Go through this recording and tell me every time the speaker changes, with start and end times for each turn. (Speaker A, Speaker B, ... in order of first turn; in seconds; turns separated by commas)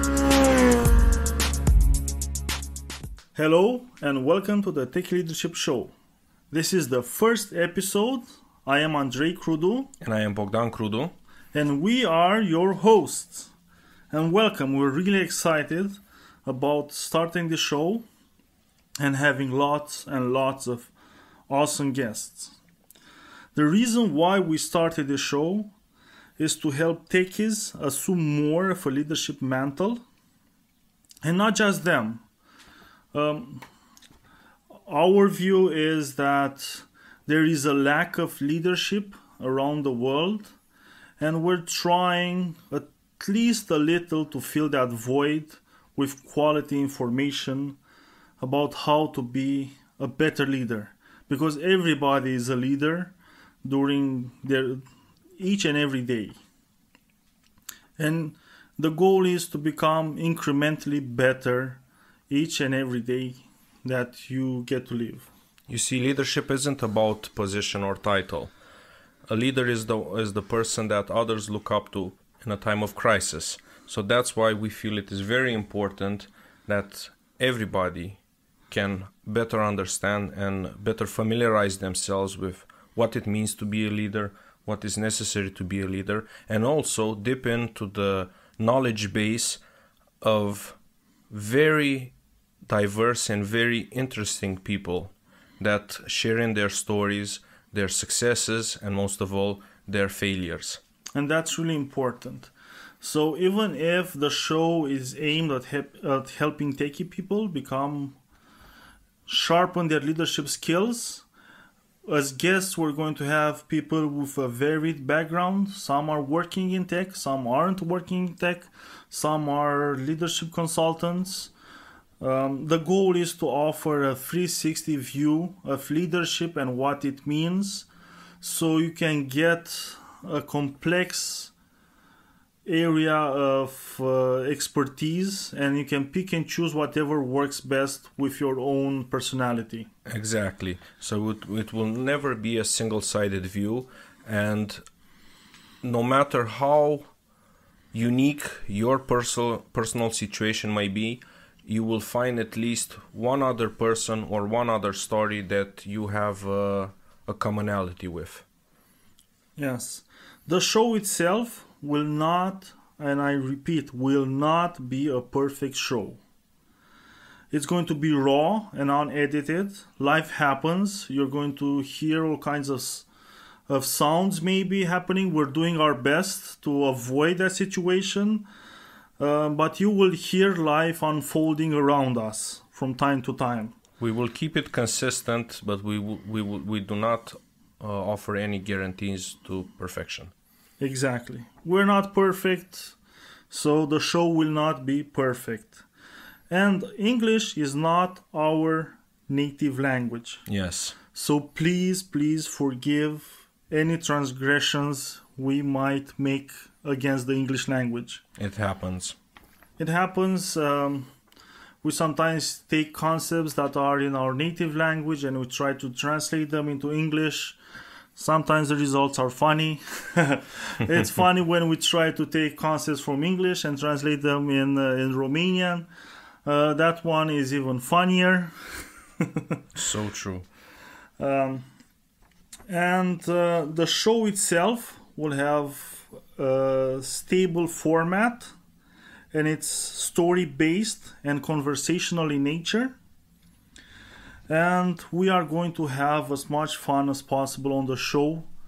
Speaker A: 3.4-5.9, Speaker A: 6.5-9.9, Speaker B: 10.0-11.1, Speaker A: 11.5-13.5, Speaker A: 14.1-18.1, Speaker A: 19.0-20.9, Speaker A: 21.5-22.5, Speaker A: 23.6-25.7, Speaker A: 26.4-30.0, Speaker A: 31.2-32.2, Speaker A: 33.1-33.6, Speaker A: 34.9-40.5, Speaker A: 41.2-47.8, Speaker A: 48.4-54.8, Speaker A: 55.4-56.4, Speaker A: 58.0-65.3, Speaker B: 65.7-68.5, Speaker B: 69.3-89.6, Speaker B: 90.2-90.8, Speaker B: 91.3-92.1, Speaker B: 92.7-100.8, Speaker A: 101.2-108.2, Speaker A: 109.3-111.2, Speaker A: 112.1-121.5, Speaker A: 122.2-127.9, Speaker A: 128.4-131.5, Speaker A: 132.7-139.9, Speaker B: 140.1-144.8, Speaker B: 145.8-147.0, Speaker B: 147.9-158.4, Speaker A: 159.6-166.2, Speaker A: 167.5-173.1, Speaker A: 173.7-178.5, Speaker A: 179.2-183.8, Speaker B: 184.0-190.3, Speaker A: 190.8-193.0, Speaker A: 193.5-195.8, Speaker A: 196.5-200.5, Speaker B: 200.5-201.0, Speaker A: 201.1-208.2, Speaker B: 208.4-209.2, Speaker A: 209.8-211.1, Speaker A: 211.8-217.6, Speaker A: 218.2-225.9, Speaker A: 226.4-228.8, Speaker B: 229.8-230.5, Speaker A: 231.2-231.7, Speaker A: 232.7-238.5, Speaker A: 239.3-243.0, Speaker A: 244.5-248.5